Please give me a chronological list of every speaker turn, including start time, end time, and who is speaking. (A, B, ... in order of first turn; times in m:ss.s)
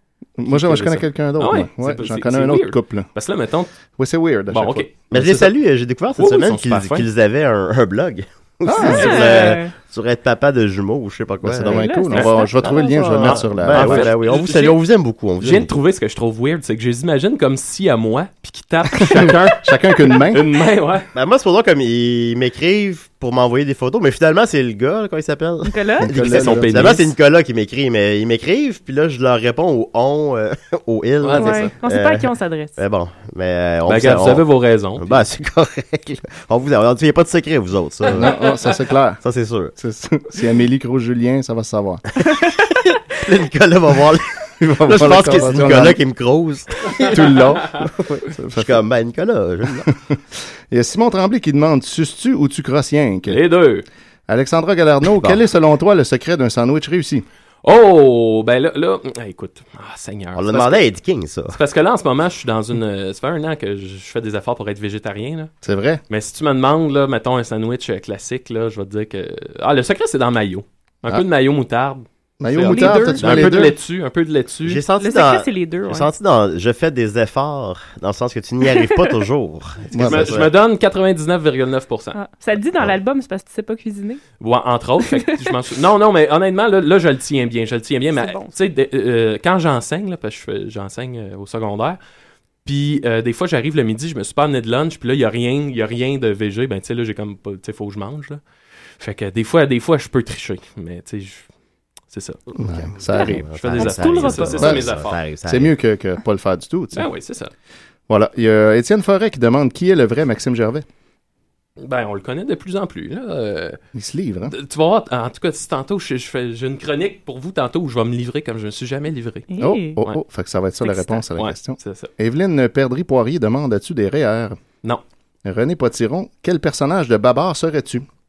0:00.4-0:03.1 A
0:00.4-0:03.7 B
0:04.0-0:05.5 A
0:04.5-0:05.0 B
0:05.1-0:11.8 C
0:06.2-0:07.1 B
0:08.6-0:09.2 A
0:08.7-0:09.7 D
0:11.4-0:14.1 A
0:11.6-0:13.4 D
0:12.6-0:15.7 C
0:13.7-0:14.8 B
0:15.4-0:21.1 B
0:19.1-0:20.4 A
0:21.1-0:38.3 C
0:25.6-0:26.1 D
0:26.0-0:27.0 A
0:26.1-0:27.1 B
0:31.2-0:31.7 B
0:31.3-0:32.8 D
0:33.8-0:35.1 B
0:38.1-0:39.2 A
0:39.2-0:39.7 C
0:39.7-0:42.0 A
0:42.8-0:49.9 C
0:44.6-0:46.0 A
0:47.1-0:48.8 A
0:49.8-0:53.4 A
0:53.3-0:53.8 B
0:54.3-0:57.2 A
0:57.6-1:00.9 B
1:00.4-1:01.6 C
1:01.5-1:05.5 B
1:05.6-1:06.0 A
1:06.1-1:14.8 B
1:12.4-1:13.7 A
1:12.6-1:13.4 D
1:13.2-1:13.7 C
1:14.6-1:20.5 C
1:15.0-1:16.1 D
1:19.9-1:20.4 A
1:20.0-1:22.2 B
1:22.1-1:24.2 D
1:24.4-1:32.0 B
1:25.1-1:25.5 D
1:28.1-1:28.5 D
1:32.6-1:38.4 B
1:39.0-1:41.5 B
1:42.1-1:42.4 B
1:42.5-1:45.7 C
1:42.6-1:43.4 A
1:43.2-1:44.7 D
1:43.2-1:45.2 B
1:44.6-1:44.9 A
1:45.4-1:47.1 A
1:46.9-1:47.5 B
1:48.1-1:50.8 A
1:51.8-1:53.8 B
1:53.9-1:54.5 A
1:54.5-1:59.5 B
1:59.5-2:00.0 D
1:59.6-2:04.6 A
2:00.9-2:01.2 D
2:01.3-2:02.1 B
2:05.4-2:08.0 A